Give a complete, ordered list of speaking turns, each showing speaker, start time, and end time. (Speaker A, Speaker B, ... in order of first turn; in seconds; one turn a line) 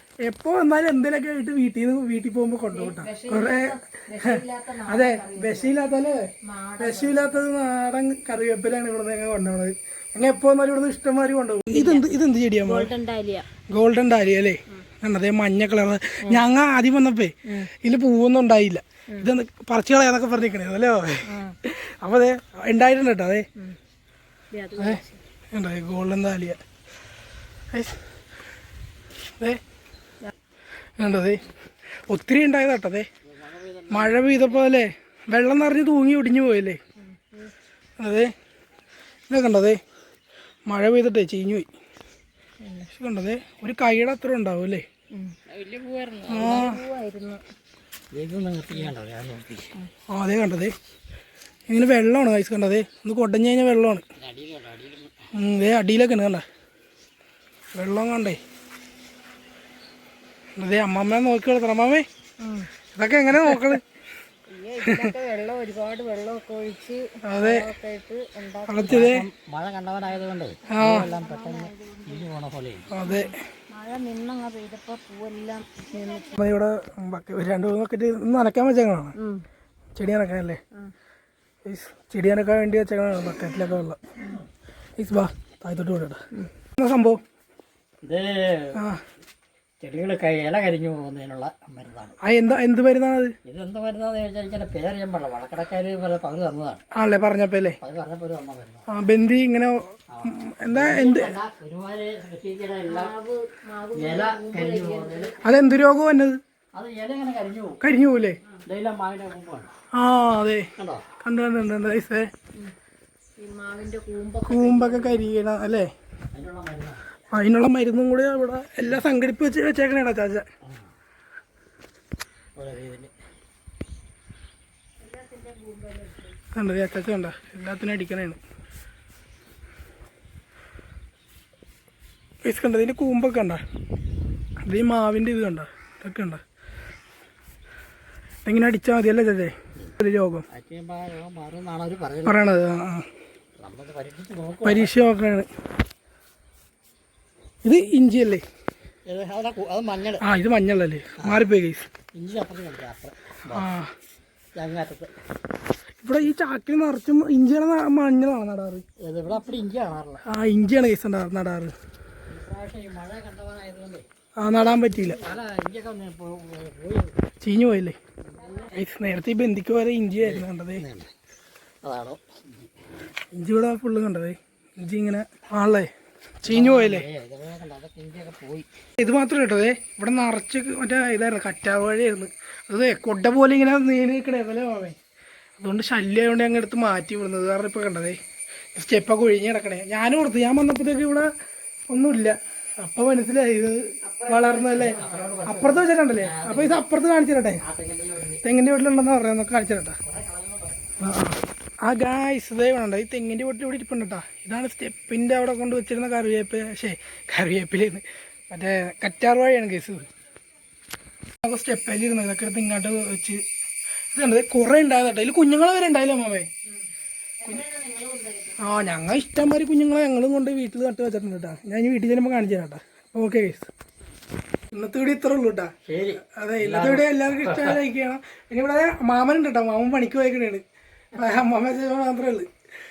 Speaker A: 0.2-12.9
Speaker B: 2.7-5.8
Speaker B: 6.5-7.5
Speaker B: 11.7-13.5
Speaker A: 13.7-23.5
Speaker B: 21.3-21.6
Speaker B: 24.5-25.2
Speaker A: 25.5-26.6
Speaker A: 31.0-31.4
Speaker A: 32.1-33.1
Speaker C: 33.2-34.7
Speaker A: 33.9-36.8
Speaker B: 37.1-37.5
Speaker A: 38.0-38.3
Speaker A: 39.3-39.8
Speaker A: 40.7-41.7
Speaker B: 42.6-42.9
Speaker A: 42.9-44.9
Speaker B: 45.1-45.4
Speaker C: 45.5-46.6
Speaker B: 46.2-47.4
Speaker A: 46.3-46.8
Speaker C: 48.1-49.8
Speaker A: 50.1-50.8
Speaker A: 51.7-54.0
Speaker C: 54.2-55.3
Speaker A: 55.3-56.4
Speaker A: 57.8-58.4
Speaker A: 60.6-62.1
Speaker B: 62.4-62.7
Speaker A: 62.9-63.8
Speaker B: 64.5-69.0
Speaker A: 64.8-65.1
Speaker A: 67.2-67.7
Speaker A: 68.7-69.3
Speaker C: 68.8-73.0
Speaker A: 70.7-71.1
Speaker B: 70.9-72.3
Speaker A: 72.9-73.4
Speaker B: 73.0-76.4
Speaker A: 76.3-79.2
Speaker B: 79.2-79.5
Speaker A: 80.0-80.6
Speaker A: 81.7-84.0
Speaker A: 85.0-86.2
Speaker A: 86.8-87.2
Speaker C: 88.0-88.8
Speaker A: 88.8-89.0
Speaker C: 89.8-92.2
Speaker A: 92.2-93.3
Speaker C: 93.5-96.8
Speaker A: 96.9-97.8
Speaker C: 97.8-98.8
Speaker A: 98.9-101.4
Speaker C: 100.1-103.1
Speaker B: 102.9-105.4
Speaker C: 104.0-105.4
Speaker A: 105.4-106.4
Speaker C: 106.7-107.8
Speaker A: 107.8-108.4
Speaker C: 108.7-109.7
Speaker A: 109.9-112.3
Speaker C: 110.8-111.1
Speaker B: 113.4-115.3
Speaker A: 114.5-115.9
Speaker C: 116.3-117.2
Speaker A: 117.3-120.5
Speaker C: 122.6-123.1
Speaker B: 125.0-126.3
Speaker A: 126.5-128.4
Speaker A: 132.4-133.6
Speaker A: 134.6-136.4
Speaker A: 138.4-140.5
Speaker C: 140.5-142.5
Speaker A: 142.2-143.1
Speaker C: 143.6-144.9
Speaker A: 144.6-145.5
Speaker A: 147.6-148.4
Speaker C: 149.1-150.2
Speaker A: 150.2-151.9
Speaker C: 152.1-153.7
Speaker A: 153.5-153.9
Speaker C: 154.6-155.1
Speaker A: 156.0-158.8
Speaker C: 159.0-160.2
Speaker A: 160.3-161.7
Speaker C: 162.3-164.1
Speaker A: 164.4-165.2
Speaker C: 164.9-167.2
Speaker A: 167.4-168.0
Speaker C: 168.3-168.8
Speaker A: 168.7-170.8
Speaker C: 170.2-171.1
Speaker C: 171.8-172.2
Speaker A: 173.3-175.9
Speaker A: 176.4-177.1
Speaker C: 176.5-178.7
Speaker A: 179.0-185.0
Speaker A: 185.6-188.2
Speaker A: 188.8-191.3
Speaker A: 191.9-197.6
Speaker C: 194.1-196.9
Speaker C: 197.6-198.4
Speaker A: 198.4-200.0
Speaker C: 200.0-201.0
Speaker A: 201.0-210.1
Speaker A: 211.4-213.4
Speaker A: 214.1-216.5
Speaker C: 217.4-218.6
Speaker B: 217.6-218.2
Speaker A: 218.6-223.7
Speaker A: 224.7-230.6
Speaker C: 225.8-227.8
Speaker A: 231.1-232.5